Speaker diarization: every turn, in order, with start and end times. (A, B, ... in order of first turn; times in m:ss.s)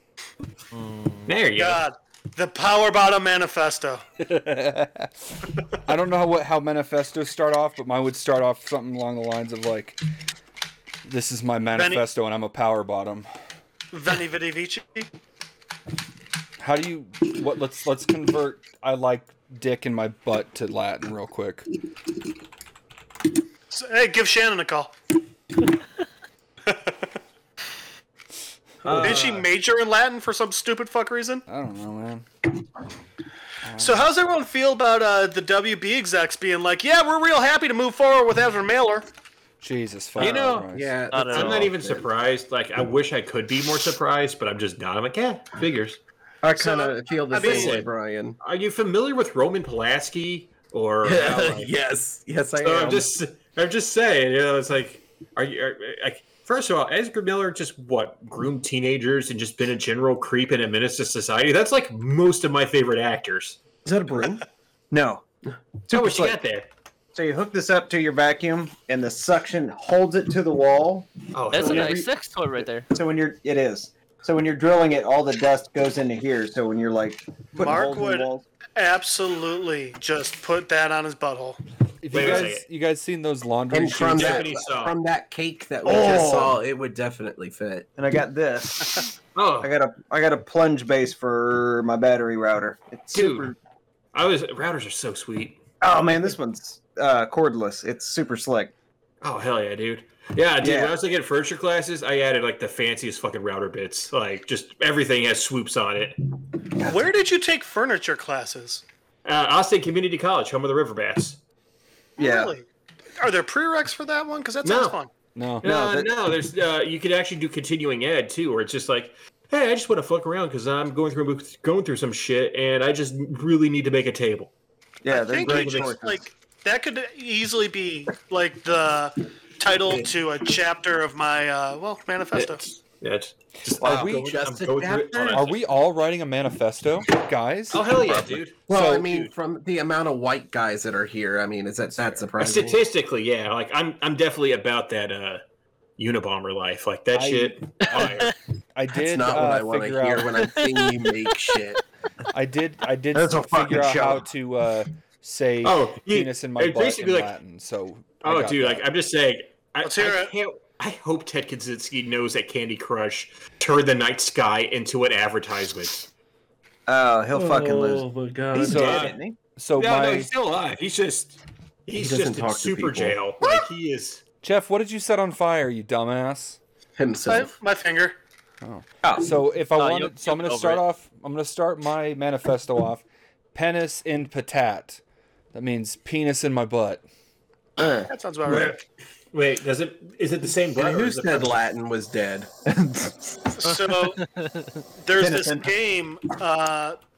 0:00.7-0:01.4 A
0:01.3-0:01.8 B
0:01.6-0:04.0 C
0:04.2-0:10.0 D
0:11.1-0:13.3 D
0:11.8-0:12.0 C
0:13.9-0:15.1 C
0:16.6-0:21.7 D
0:23.7-0:24.9 C
0:26.7-0:27.1 C
0:28.8-0:29.4 B
0:28.9-0:29.2 E
0:29.0-0:31.4 C
0:31.5-0:32.3 D
0:33.6-0:34.0 D
0:33.8-0:39.1 C
0:39.6-0:40.9 D
0:40.2-0:40.6 B
0:40.2-0:42.1 F
0:41.1-0:41.7 A
0:41.3-0:46.0 B
0:46.4-0:48.4 F
0:46.6-0:47.8 C
0:47.4-0:47.9 B
0:48.4-0:51.7 B
0:51.0-0:53.1 F
0:52.6-1:03.6 B
1:03.8-1:04.4 F
1:04.9-1:05.2 E
1:05.9-1:06.4 E
1:05.9-1:06.7 B
1:07.1-1:12.1 E
1:11.3-1:12.0 B
1:11.5-1:12.9 A
1:12.6-1:18.4 E
1:17.6-1:21.6 C
1:22.0-1:24.5 D
1:22.1-1:22.6 B
1:23.7-1:27.9 F
1:24.2-1:25.0 B
1:25.8-1:26.6 E
1:28.0-1:29.1 E
1:29.4-1:29.7 B
1:29.6-1:33.6 E
1:33.1-1:33.5 B
1:34.1-1:35.6 B
1:35.8-1:38.7 E
1:39.2-1:46.2 B
1:40.6-1:41.0 E
1:46.8-1:47.0 E
1:46.8-1:48.8 C
1:49.2-1:51.4 B
1:52.2-1:52.6 C
1:52.2-1:52.5 E
1:53.2-1:55.1 C
1:54.6-1:55.0 B
1:55.4-1:55.6 D
1:55.6-2:04.5 B
1:55.6-1:56.1 E
2:05.0-2:06.3 E
2:05.1-2:12.6 C
2:05.4-2:06.0 B
2:09.8-2:10.1 B
2:12.3-2:15.6 B
2:13.7-2:14.3 D
2:13.8-2:14.2 E
2:13.9-2:15.5 F
2:15.3-2:19.1 D
2:17.7-2:19.3 B
2:18.7-2:22.8 F
2:22.4-2:25.4 B
2:26.0-2:28.3 B
2:27.2-2:30.5 D
2:27.8-2:28.3 A
2:28.9-2:31.8 F
2:30.6-2:30.9 A
2:32.3-2:38.9 D
2:33.1-2:34.2 E
2:35.6-2:37.4 B
2:38.2-2:46.1 B
2:39.8-2:40.3 C
2:46.9-2:49.4 E
2:47.3-2:48.9 F
2:48.6-2:49.2 B
2:48.6-2:50.3 D
2:49.8-2:54.2 B
2:51.9-2:53.6 F
2:54.4-2:56.6 D
2:57.0-2:57.5 F
2:57.3-2:58.2 C
2:58.6-3:05.0 D
2:59.0-2:59.3 E
2:59.8-3:00.8 A
3:05.5-3:07.0 D
3:07.8-3:08.1 E
3:08.1-3:08.8 C
3:08.4-3:11.6 B
3:10.8-3:12.5 F
3:12.7-3:13.8 E
3:13.6-3:14.2 C
3:15.0-3:17.0 C
3:15.2-3:15.7 E